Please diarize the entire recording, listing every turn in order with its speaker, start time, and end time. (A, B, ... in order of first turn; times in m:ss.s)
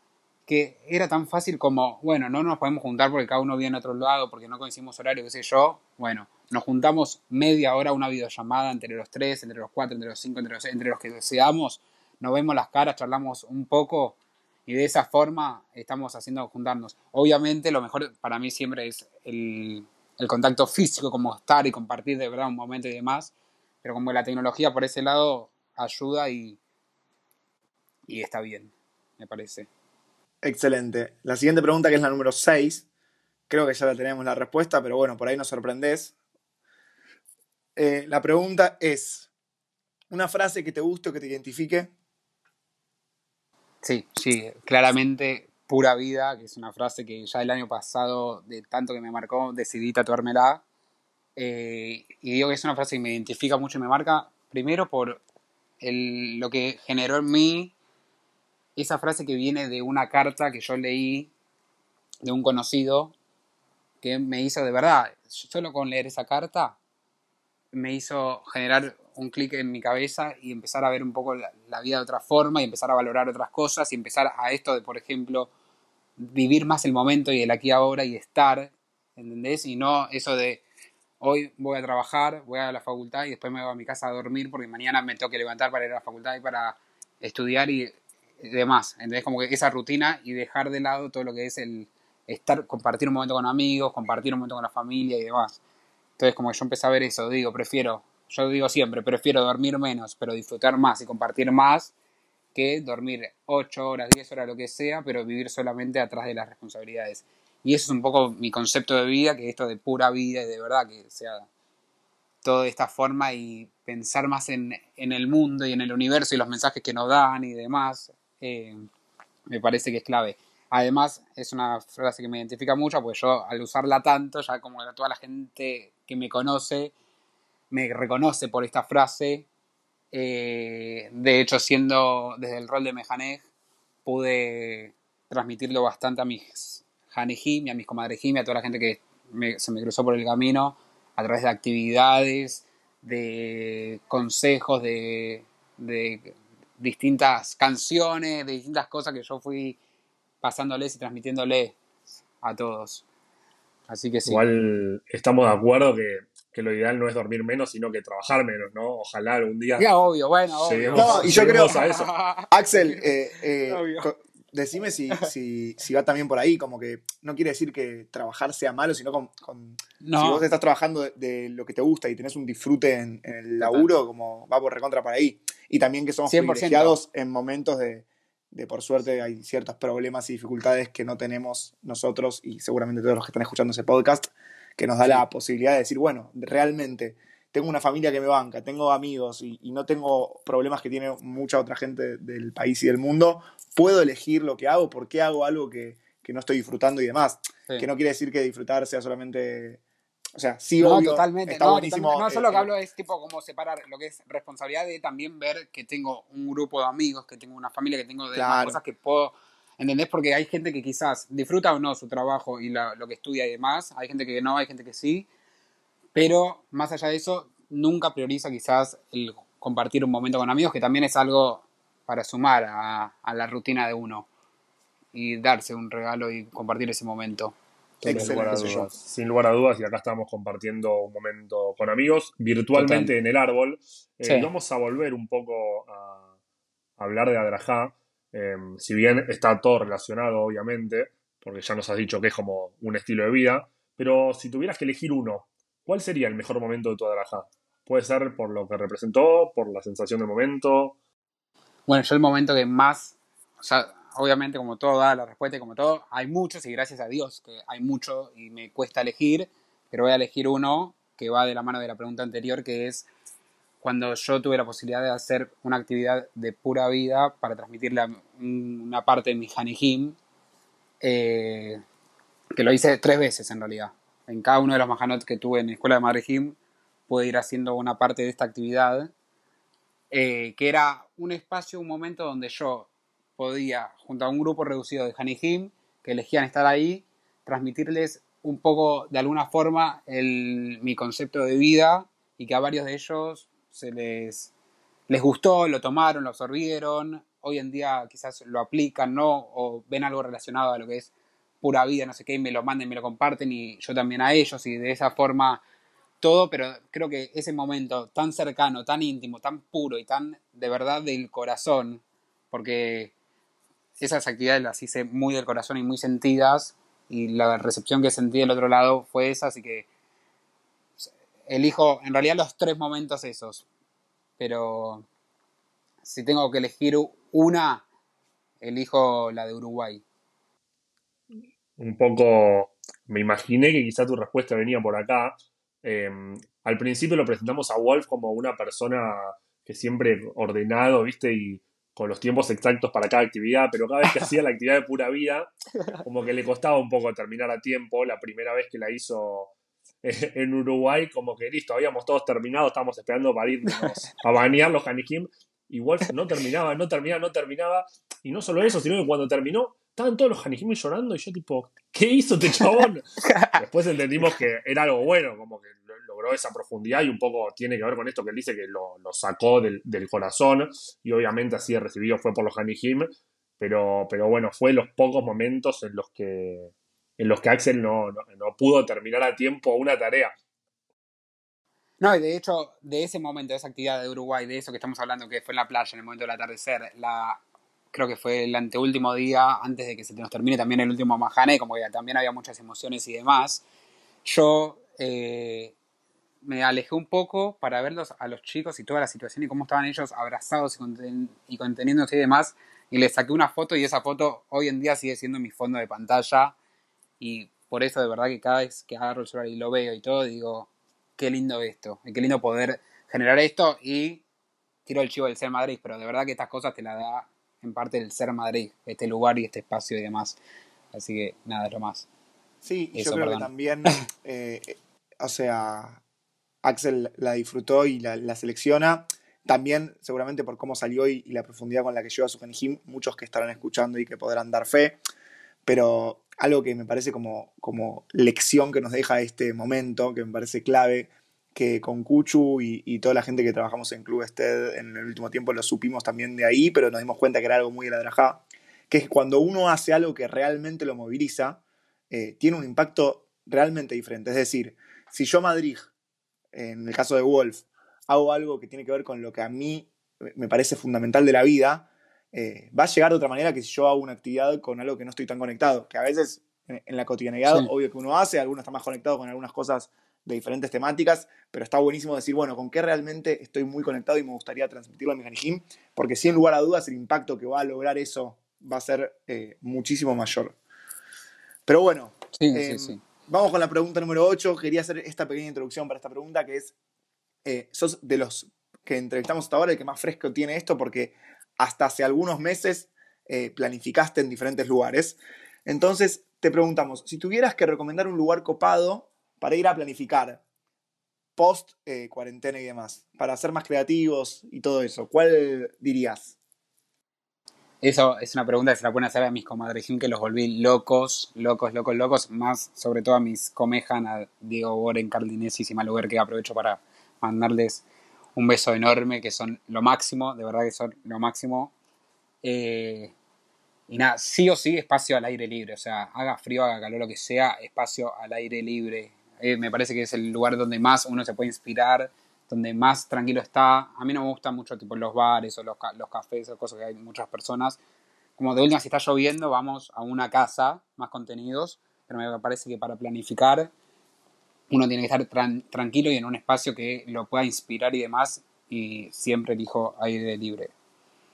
0:00.5-0:23.3 A
0:23.8-0:26.6 A
0:28.1-0:29.7 A
0:30.4-0:32.8 B
0:33.5-0:36.1 B
0:37.8-0:39.3 B
0:40.1-0:41.9 B
0:43.8-0:50.6 A
0:51.4-0:55.2 A
0:55.8-0:57.7 A
0:58.8-1:01.3 A
1:02.2-1:03.1 A
1:04.0-1:06.8 A
1:07.7-1:15.5 A
1:16.2-1:20.6 A
1:21.2-1:35.6 A
1:36.2-1:41.9 A
1:42.5-1:51.5 A
1:52.4-1:58.9 A
1:59.5-2:06.9 A
2:07.7-2:09.5 A
2:10.1-2:13.4 A
2:14.0-2:29.8 A
2:30.4-2:31.8 A
2:32.4-2:33.0 A
2:33.9-2:34.4 A
2:34.3-2:39.9 C
2:39.8-2:43.1 A
2:40.6-2:42.1 C
2:40.9-2:41.8 B
2:42.5-3:19.8 B
2:43.7-2:44.1 A
2:50.0-2:50.4 A
2:53.6-2:53.9 A
2:56.2-2:57.0 A
3:20.4-3:22.7 B
3:20.8-3:35.3 A
3:28.3-3:28.8 B
3:36.1-3:44.3 A
3:45.1-3:48.9 A
3:48.0-3:48.8 B
3:48.0-3:56.2 C
3:52.7-3:53.1 A
3:54.2-3:54.5 A
3:57.0-4:11.0 C
4:11.9-4:23.1 A
4:23.8-4:30.2 A
4:31.0-4:31.8 A
4:32.5-4:36.5 A
4:37.1-4:39.1 A
4:40.1-4:54.5 A
4:55.1-5:01.1 A
5:01.6-5:05.6 A
5:06.2-5:13.1 A
5:14.0-5:19.9 A
5:21.0-5:23.6 A
5:24.4-5:25.0 A
5:26.0-5:27.8 A
5:28.6-5:30.0 A
5:31.8-5:45.5 C
5:46.0-5:49.5 C
5:50.0-6:03.0 C
5:53.6-5:53.9 A
6:02.8-6:03.6 A
6:03.6-6:20.3 C
6:22.0-6:27.4 A
6:27.9-6:33.6 A
6:34.2-6:35.7 A
6:36.4-6:46.5 A
6:47.2-6:54.2 A
6:54.8-7:00.4 A
7:00.9-7:02.1 A
7:02.6-7:06.0 B
7:02.9-7:03.5 A
7:06.6-7:15.0 B
7:15.6-7:35.9 B
7:36.5-8:00.6 B
8:01.6-8:06.7 B
8:02.4-8:03.0 A
8:07.4-8:20.4 B
8:21.4-8:26.3 B
8:27.8-8:37.8 A
8:38.4-8:41.7 A
8:42.4-8:43.1 A
8:43.9-8:57.8 A
8:58.4-9:03.7 A
9:04.7-9:10.7 A